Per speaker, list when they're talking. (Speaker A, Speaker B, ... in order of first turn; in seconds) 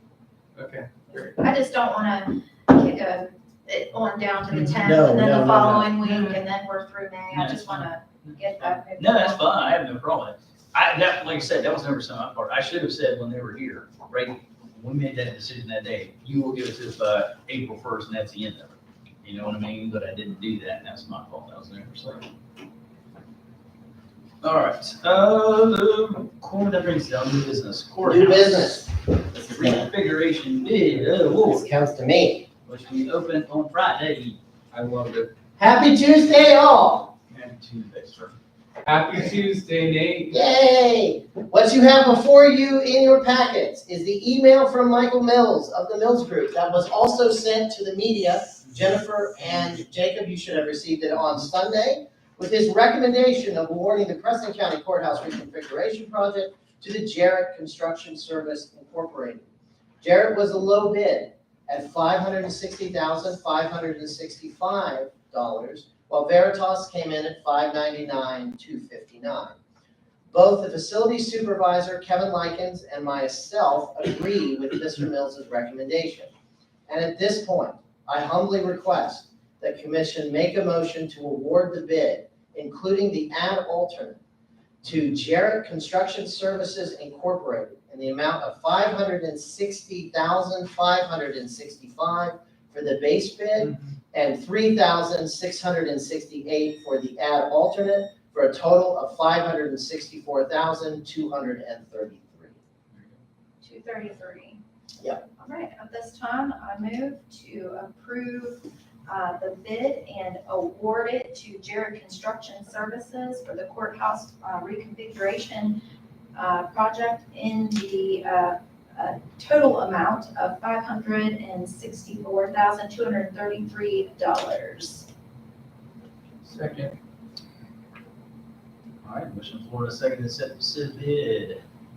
Speaker A: 0.6-1.4, 34.7-35.3, 38.8-40.4, 126.4-126.9
Speaker B: 1.2-9.5, 103.6-104.6, 105.4-115.8, 116.3-125.1
Speaker C: 4.8-5.9, 28.0-29.9, 31.3-32.5, 35.6-37.1, 40.3-59.5, 60.0-69.5, 70.3-76.3, 76.9-84.2, 84.8-102.5
Speaker D: 7.3-22.3, 24.4-28.9, 29.5-31.6, 32.6-34.4, 37.3-38.4, 129.0-131.6